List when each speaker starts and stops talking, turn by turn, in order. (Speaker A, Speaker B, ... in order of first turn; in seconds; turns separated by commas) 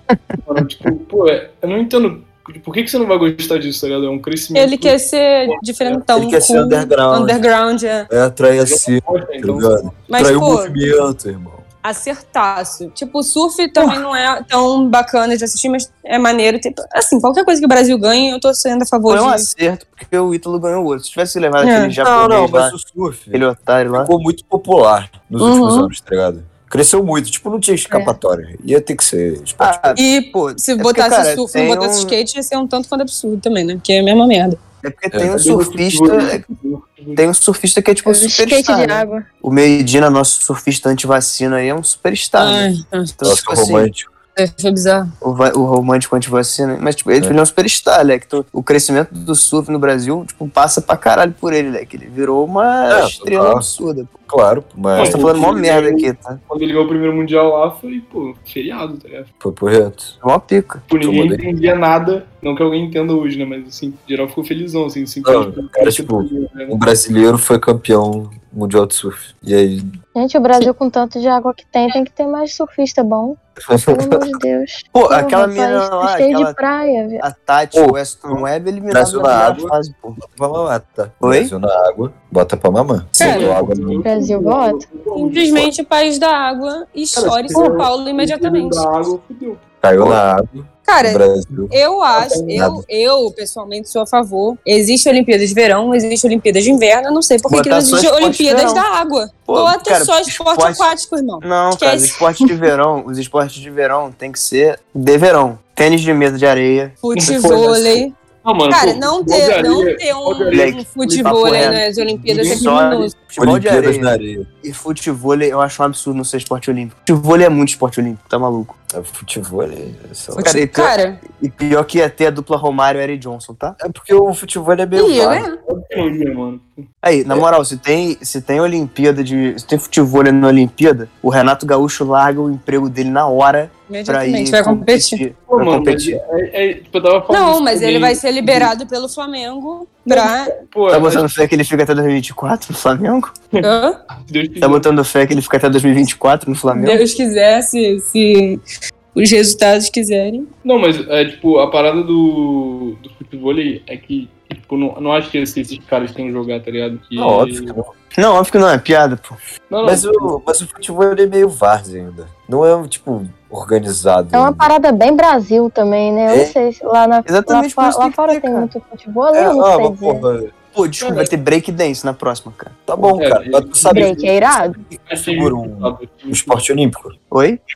Speaker A: 0.4-5.0, Speaker B: 4.5-8.1, Speaker A: 5.5-6.0, Speaker C: 6.1-7.4, Speaker C: 8.1-11.7, Speaker A: 8.7-10.0, Speaker B: 10.1-10.8, Speaker B: 11.8-19.5, Speaker D: 19.1-22.8, Speaker B: 21.6-21.9, Speaker C: 22.0-23.4, Speaker D: 23.3-24.1, Speaker C: 23.9-30.0, Speaker B: 25.4-25.9, Speaker D: 29.6-32.2, Speaker B: 30.0-34.6, Speaker D: 34.8-36.5, Speaker C: 35.1-35.4, Speaker A: 35.3-37.2, Speaker D: 37.2-43.9, Speaker E: 38.1-39.2, Speaker B: 42.4-43.2, Speaker C: 43.2-44.1, Speaker B: 44.4-45.1, Speaker D: 45.2-54.1, Speaker C: 52.9-53.7, Speaker C: 54.3-55.3, Speaker A: 54.9-59.3, Speaker D: 55.0-56.4, Speaker C: 59.4-60.1, Speaker D: 60.2-60.9, Speaker A: 60.9-66.8, Speaker C: 61.0-61.5, Speaker C: 65.2-70.0, Speaker E: 70.2-73.4, Speaker C: 73.7-74.4, Speaker E: 73.9-77.2, Speaker D: 74.9-76.6, Speaker D: 77.2-80.2, Speaker C: 77.7-84.1, Speaker D: 81.2-81.5, Speaker A: 83.2-85.7, Speaker B: 83.2-83.5, Speaker E: 84.0-84.8, Speaker B: 85.1-88.9, Speaker A: 87.1-90.1, Speaker C: 89.8-91.8, Speaker B: 90.9-102.5, Speaker A: 92.2-92.6, Speaker C: 92.5-92.8, Speaker D: 97.5-98.9, Speaker D: 99.5-100.9, Speaker D: 101.4-107.0, Speaker B: 107.0-108.1, Speaker A: 107.1-113.1, Speaker B: 108.7-113.1, Speaker D: 110.5-118.8, Speaker C: 113.4-114.5, Speaker C: 118.9-120.5, Speaker B: 120.3-121.2, Speaker D: 120.4-123.8, Speaker C: 123.8-125.5, Speaker B: 125.0-125.6, Speaker A: 125.7-126.9, Speaker D: 127.0-136.2, Speaker B: 133.9-135.2, Speaker A: 135.5-138.7, Speaker B: 137.3-140.5, Speaker A: 140.1-141.3, Speaker D: 140.9-143.3, Speaker B: 143.6-144.0, Speaker A: 144.3-144.9, Speaker D: 144.6-147.0, Speaker B: 146.7-148.6, Speaker B: 149.2-150.5, Speaker A: 150.6-157.7, Speaker C: 157.2-157.9, Speaker D: 158.1-159.4, Speaker A: 159.7-160.3, Speaker C: 159.8-164.7, Speaker E: 164.3-170.3, Speaker C: 166.3-166.6, Speaker D: 167.3-168.7, Speaker C: 169.3-170.5, Speaker D: 170.7-173.2, Speaker A: 171.0-171.3, Speaker C: 172.9-177.1, Speaker A: 173.2-176.6, Speaker E: 173.9-174.8, Speaker D: 177.3-177.6